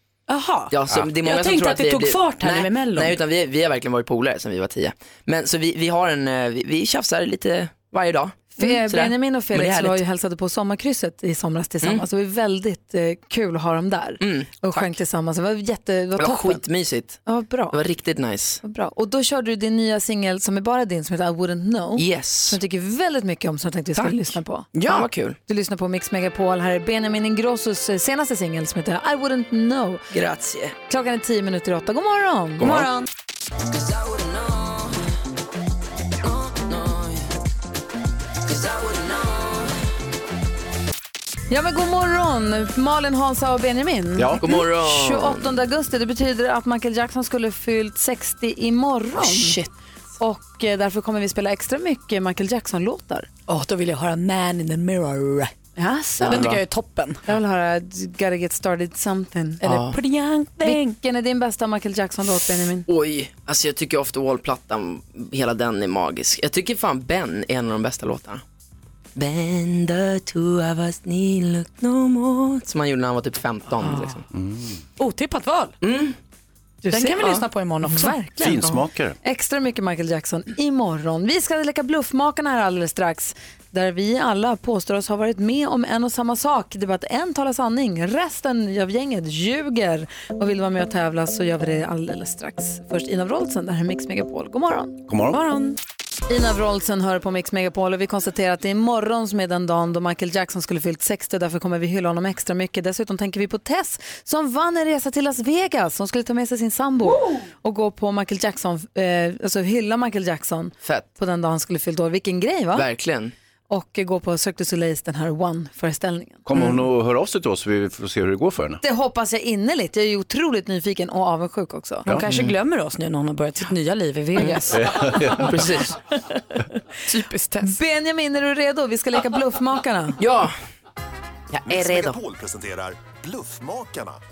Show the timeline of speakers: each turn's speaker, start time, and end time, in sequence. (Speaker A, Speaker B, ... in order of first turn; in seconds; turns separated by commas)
Speaker A: 0.3-3.2, Speaker B: 0.7-10.0, Speaker C: 8.6-16.6, Speaker B: 14.2-15.0, Speaker B: 16.2-18.6, Speaker C: 17.2-17.8, Speaker C: 18.6-24.8, Speaker B: 22.0-22.6, Speaker A: 24.8-25.1, Speaker B: 24.8-25.4, Speaker C: 25.5-30.1, Speaker B: 30.1-30.7, Speaker C: 30.9-33.0, Speaker B: 32.6-32.9, Speaker B: 33.8-34.8, Speaker B: 36.5-37.2, Speaker B: 38.5-39.5, Speaker C: 41.5-49.6, Speaker D: 44.2-44.5, Speaker B: 44.4-45.6, Speaker B: 49.1-49.7, Speaker C: 50.2-53.3, Speaker A: 53.5-55.5, Speaker C: 55.8-56.5, Speaker B: 56.2-56.6, Speaker A: 56.3-57.2, Speaker C: 57.3-59.6, Speaker A: 59.6-61.0, Speaker B: 59.6-60.0, Speaker C: 60.6-62.9, Speaker B: 62.9-68.4, Speaker B: 69.2-74.2, Speaker D: 74.3-74.8, Speaker A: 75.0-75.8, Speaker B: 75.8-76.2, Speaker C: 76.8-95.0, Speaker A: 76.9-78.2, Speaker D: 78.4-79.2, Speaker D: 95.1-95.4, Speaker A: 95.3-95.7, Speaker C: 96.3-112.9, Speaker B: 110.8-111.1, Speaker B: 112.7-113.3, Speaker C: 113.7-116.5, Speaker D: 116.5-118.8, Speaker C: 118.8-122.1, Speaker A: 122.1-124.7, Speaker C: 124.4-124.8, Speaker D: 124.7-125.6, Speaker B: 125.4-125.9, Speaker A: 127.1-127.8, Speaker C: 127.6-130.2, Speaker B: 130.2-130.5, Speaker B: 131.5-132.2, Speaker E: 131.7-134.2